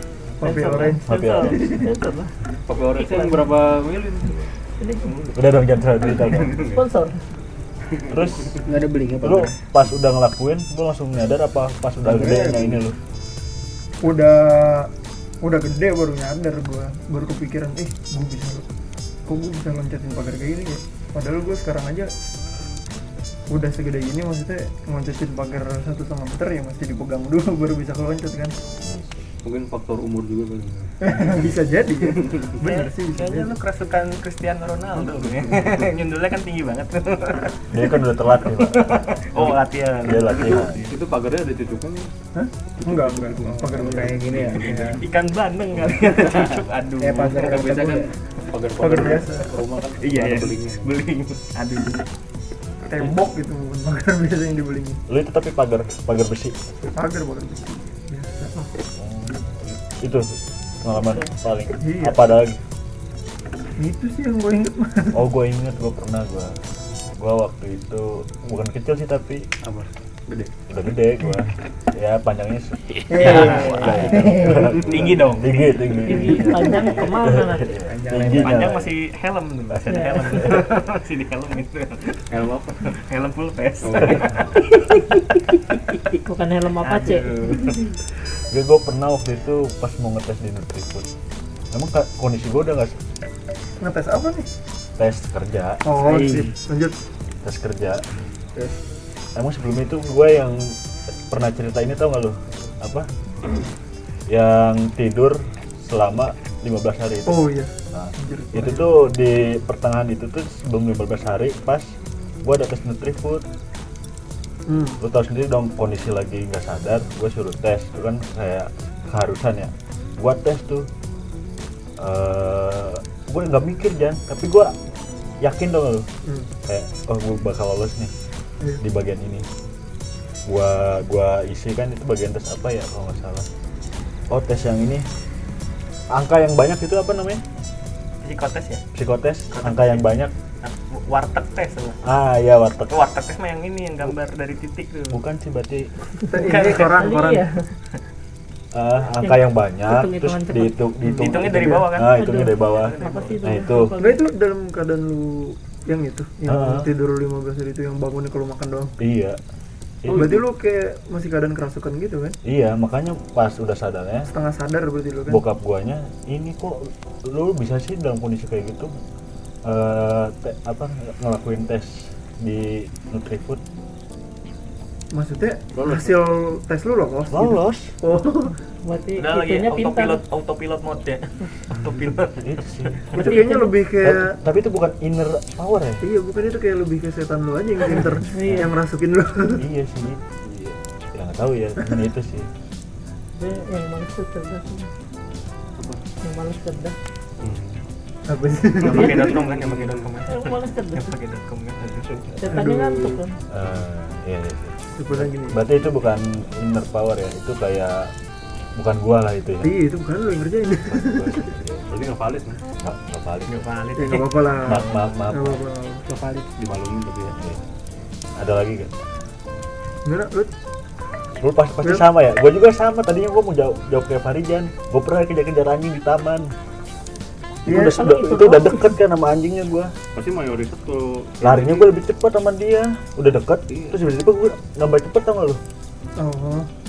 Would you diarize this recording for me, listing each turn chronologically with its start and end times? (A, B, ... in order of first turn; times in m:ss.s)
0:00.4-0:01.0 A
0:00.4-0:02.0 B
0:01.0-0:01.8 C
0:01.5-0:02.3 D
0:02.7-0:04.4 E
0:03.0-0:03.5 B
0:04.8-0:05.1 B
0:05.3-0:06.7 C
0:06.0-0:06.8 E
0:06.6-0:07.2 B
0:08.1-0:08.6 C
0:08.6-0:09.5 F
0:09.2-0:13.0 C
0:12.0-0:12.8 F
0:14.0-0:14.9 A
0:15.4-0:18.7 A
0:19.3-0:22.1 A
0:23.5-0:28.5 A
0:28.8-0:29.2 C
0:29.4-0:30.9 E
0:31.0-0:33.6 A
0:32.6-0:40.9 D
0:35.0-0:35.7 E
0:37.7-0:40.9 C
0:40.3-0:42.1 E
0:42.3-0:44.2 A
0:42.8-0:45.0 E
0:43.7-0:45.0 F
0:44.8-0:47.3 D
0:47.0-0:48.1 F
0:47.1-0:51.0 E
0:48.7-0:49.5 A
0:50.0-0:52.0 D
0:52.8-0:55.0 A
0:55.1-0:56.6 C
0:56.9-0:58.5 A
0:59.0-1:00.2 C
1:00.8-1:02.6 C
1:01.8-1:02.3 A
1:03.8-1:05.2 A
1:05.1-1:06.5 C
1:07.2-1:09.4 C
1:09.6-1:10.5 E
1:10.7-1:18.9 C
1:13.1-1:14.7 A
1:13.1-1:15.7 D
1:14.9-1:15.2 E
1:16.0-1:17.8 B
1:17.8-1:18.7 F
1:18.2-1:22.2 D
1:19.9-1:20.4 B
1:22.3-1:23.0 E
1:22.9-1:24.4 D
1:23.8-1:24.4 E
1:24.3-1:24.6 C
1:24.6-1:25.0 B
1:26.2-1:27.7 B
1:26.8-1:27.7 D
1:28.5-1:31.1 C
1:31.7-1:33.0 C
1:33.8-1:34.5 A
1:35.0-1:35.9 C
1:35.8-1:37.0 A
1:37.4-1:38.0 C
1:39.3-1:40.7 C
1:41.3-1:43.1 C
1:44.3-1:53.4 C
1:47.2-1:48.9 A
1:54.7-1:55.0 A
1:55.0-2:00.9 C
2:02.0-2:04.7 C
2:05.4-2:06.1 C
2:06.2-2:06.5 A
2:06.6-2:08.1 C
2:08.8-2:09.4 C
2:10.4-2:13.4 C
2:14.3-2:15.1 C
2:16.1-2:17.4 C
2:18.2-2:18.8 D
2:18.9-2:20.3 C
2:19.5-2:20.1 D
2:20.6-2:22.0 D
2:22.0-2:23.0 C
2:22.9-2:25.2 D
2:25.1-2:25.9 C
2:26.3-2:27.5 A
2:26.4-2:26.9 D
2:26.9-2:27.7 B
2:28.7-2:34.0 C
2:29.2-2:30.9 B
2:31.0-2:33.4 D
2:31.5-2:31.9 A
2:32.0-2:34.3 B
2:34.0-2:38.9 A
2:36.4-2:36.9 C
2:39.0-2:39.4 C
2:40.0-2:40.4 C
2:40.1-2:40.4 E
2:40.1-2:42.4 A
2:42.4-2:44.3 C
2:44.2-2:45.4 A
2:45.3-2:48.9 C
2:49.6-2:53.6 C
2:55.1-2:58.5 A
2:55.8-2:56.2 E
2:57.3-2:58.0 C
2:58.8-3:00.2 B
2:59.1-3:03.2 D
3:02.4-3:03.0 C
3:03.1-3:04.4 A
3:03.1-3:03.8 B
3:04.0-3:06.0 C
3:06.0-3:09.6 A
3:08.2-3:08.7 B
3:09.6-3:10.2 C
3:10.4-3:10.7 E
3:11.1-3:12.5 C
3:13.4-3:14.9 B
3:16.2-3:17.0 B
3:17.4-3:17.8 E
3:18.3-3:19.3 A
3:18.8-3:22.3 D
3:19.4-3:20.0 E
3:20.2-3:21.2 B
3:22.2-3:22.7 E
3:22.4-3:23.4 B
3:23.5-3:28.1 C
3:25.0-3:25.6 A
3:28.7-3:29.8 C
3:29.6-3:31.5 A
3:30.9-3:31.9 C
3:31.9-3:32.6 E
3:32.8-3:33.7 C
3:33.5-3:34.6 D
3:33.9-3:36.0 A
3:34.6-3:35.6 C
3:36.6-3:37.4 E
3:38.4-3:39.0 C
3:40.0-3:40.5 A
3:41.4-3:46.5 C
3:41.8-3:42.1 A
3:47.6-3:49.9 C
3:47.6-3:48.9 A
3:48.0-3:48.6 B
3:50.1-3:51.9 E
3:51.4-3:55.6 C
3:53.7-3:54.0 E
3:56.2-3:56.7 A